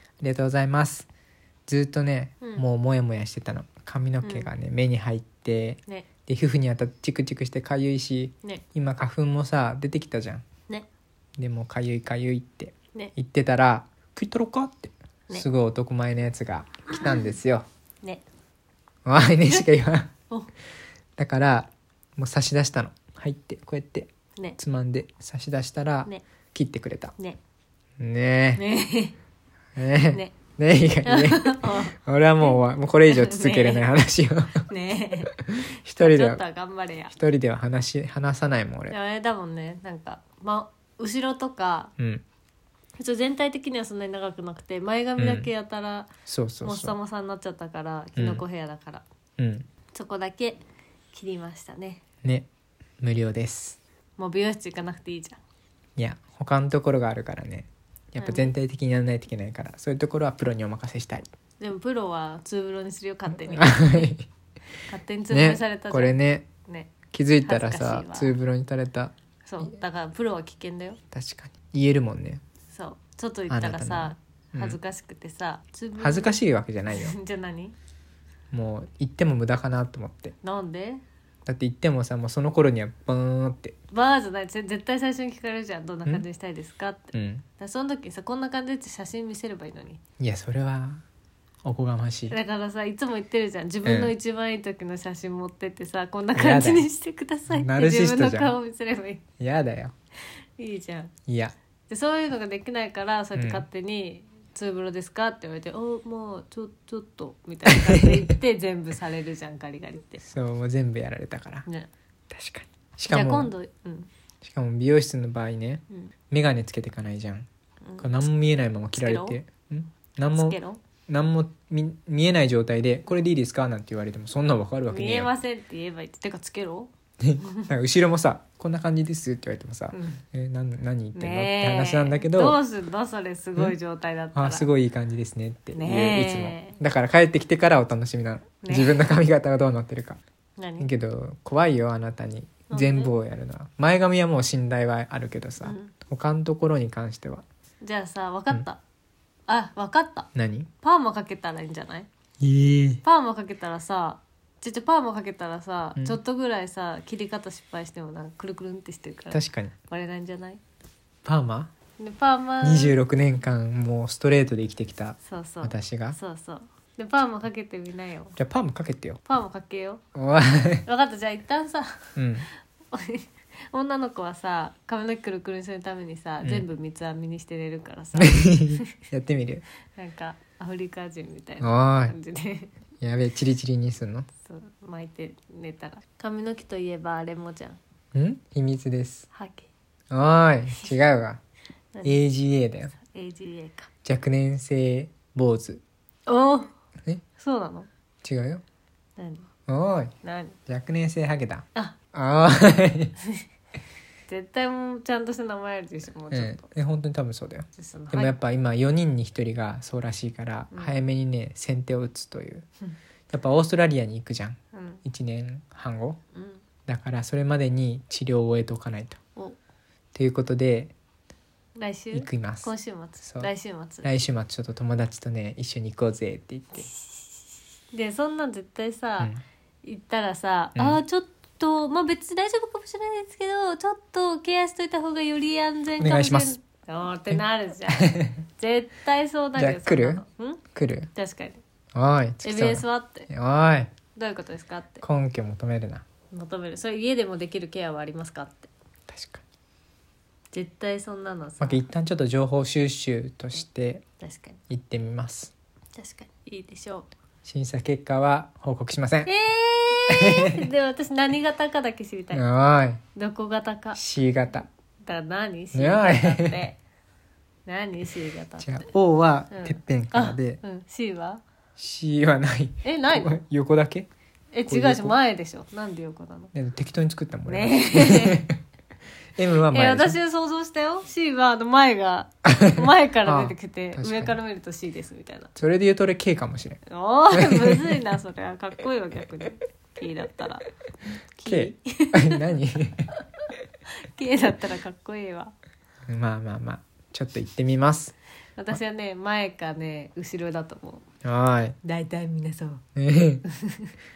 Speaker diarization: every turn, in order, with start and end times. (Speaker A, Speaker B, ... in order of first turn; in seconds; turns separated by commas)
Speaker A: 0.2-1.1, Speaker A: 1.7-10.4, Speaker B: 4.2-4.5, Speaker A: 11.4-17.6, Speaker A: 19.1-20.1, Speaker A: 21.2-27.1, Speaker A: 28.0-28.6, Speaker B: 28.6-29.2, Speaker A: 29.8-34.7, Speaker B: 30.1-30.4, Speaker B: 31.0-33.8, Speaker B: 34.7-35.3, Speaker A: 35.4-36.4, Speaker B: 35.9-37.1, Speaker A: 37.1-39.0, Speaker B: 38.9-41.9, Speaker A: 42.0-42.2, Speaker B: 43.0-46.1, Speaker A: 45.2-45.5, Speaker A: 46.3-47.0, Speaker B: 46.6-49.0, Speaker A: 48.2-48.4, Speaker A: 49.4-49.7, Speaker B: 49.9-50.6, Speaker B: 51.1-52.0, Speaker A: 53.0-53.8, Speaker B: 54.2-55.4, Speaker A: 56.0-61.3, Speaker B: 58.2-58.5, Speaker B: 61.6-64.1, Speaker A: 63.3-64.3, Speaker B: 64.9-68.3, Speaker A: 65.3-66.5, Speaker A: 67.1-69.8, Speaker B: 69.4-71.0, Speaker A: 71.1-72.4, Speaker B: 72.7-77.8, Speaker A: 73.5-74.8, Speaker A: 76.0-77.2, Speaker A: 78.5-80.3, Speaker B: 80.4-81.0, Speaker A: 81.5-83.8, Speaker B: 83.9-90.0, Speaker A: 87.1-87.4, Speaker A: 90.2-91.0, Speaker A: 91.6-92.4, Speaker B: 92.3-99.2, Speaker A: 93.8-94.1, Speaker A: 96.3-96.9, Speaker A: 97.5-98.5, Speaker A: 99.4-99.9, Speaker B: 100.6-101.1, Speaker A: 101.3-101.5, Speaker B: 101.9-110.2, Speaker A: 103.3-103.6, Speaker A: 107.7-108.1, Speaker A: 110.2-111.7, Speaker A: 112.3-113.5, Speaker B: 113.1-114.1, Speaker A: 114.4-117.5, Speaker B: 117.8-118.2, Speaker A: 118.0-125.3, Speaker B: 118.9-119.4, Speaker B: 120.3-120.8, Speaker B: 124.9-126.9, Speaker A: 127.2-132.6, Speaker B: 127.4-127.7, Speaker B: 129.9-130.2, Speaker B: 131.2-134.7, Speaker A: 134.3-140.2, Speaker B: 135.7-136.8, Speaker B: 138.6-139.0, Speaker B: 140.6-140.9, Speaker A: 140.8-147.4, Speaker B: 142.7-143.1, Speaker B: 145.6-145.9, Speaker B: 147.8-148.8, Speaker B: 149.5-150.3, Speaker A: 150.3-150.7, Speaker B: 150.8-152.1, Speaker A: 152.4-153.0, Speaker B: 153.0-160.6, Speaker A: 159.3-159.8, Speaker A: 161.2-161.7, Speaker B: 162.0-163.0, Speaker A: 162.6-166.2, Speaker B: 165.2-168.4, Speaker A: 168.4-169.2, Speaker B: 169.3-170.0, Speaker A: 170.2-170.8, Speaker B: 170.9-172.1, Speaker A: 172.2-172.5, Speaker B: 172.9-178.9, Speaker A: 178.2-179.6, Speaker B: 179.9-182.7, Speaker A: 181.6-182.2, Speaker A: 183.0-184.3, Speaker B: 184.4-187.8, Speaker A: 188.1-189.3, Speaker B: 189.3-189.7, Speaker A: 190.1-191.4, Speaker A: 192.0-192.9, Speaker B: 193.0-193.9, Speaker A: 194.0-195.8, Speaker B: 196.3-196.7, Speaker B: 197.4-197.9, Speaker A: 198.2-198.6, Speaker B: 199.2-199.5, Speaker A: 199.7-200.1, Speaker B: 200.2-200.6, Speaker A: 200.7-203.1, Speaker B: 204.3-206.7, Speaker A: 206.3-212.7, Speaker B: 207.8-208.3, Speaker B: 210.7-211.0, Speaker A: 213.3-216.2, Speaker B: 214.7-215.0, Speaker B: 216.3-216.6, Speaker A: 216.9-219.2, Speaker A: 220.1-220.9, Speaker B: 221.8-224.1, Speaker A: 222.1-223.5, Speaker A: 224.0-226.9, Speaker B: 226.8-229.3, Speaker B: 229.8-240.6, Speaker A: 236.0-236.6, Speaker A: 238.0-238.4, Speaker A: 239.6-240.2, Speaker A: 240.7-241.1, Speaker B: 241.1-241.6, Speaker A: 241.9-243.9, Speaker B: 242.4-243.3, Speaker B: 244.2-245.0, Speaker A: 245.0-246.0, Speaker B: 246.3-248.7, Speaker A: 249.1-249.4, Speaker B: 250.5-251.8, Speaker A: 251.6-254.0, Speaker B: 254.2-254.6, Speaker A: 254.7-255.5, Speaker B: 255.9-257.1, Speaker A: 257.4-259.3, Speaker B: 259.2-262.4, Speaker A: 260.1-260.5, Speaker A: 262.3-263.0, Speaker B: 263.1-264.0, Speaker A: 263.9-264.7, Speaker B: 265.0-266.8, Speaker A: 265.7-266.6, Speaker B: 267.6-268.9, Speaker A: 268.6-270.6, Speaker B: 269.5-271.4, Speaker A: 271.8-274.1, Speaker B: 272.8-273.4, Speaker B: 274.5-276.5, Speaker A: 274.7-275.1, Speaker A: 276.5-278.6, Speaker B: 277.4-278.5, Speaker A: 279.4-280.2, Speaker B: 279.7-285.5, Speaker A: 282.5-284.4, Speaker A: 285.6-286.8, Speaker B: 286.9-290.6, Speaker A: 287.3-287.8, Speaker B: 291.4-292.4, Speaker A: 291.4-293.1, Speaker B: 294.0-295.5, Speaker A: 296.1-298.1, Speaker B: 298.6-301.1, Speaker A: 301.2-301.8, Speaker B: 301.8-302.8, Speaker A: 302.9-303.4, Speaker B: 303.4-303.9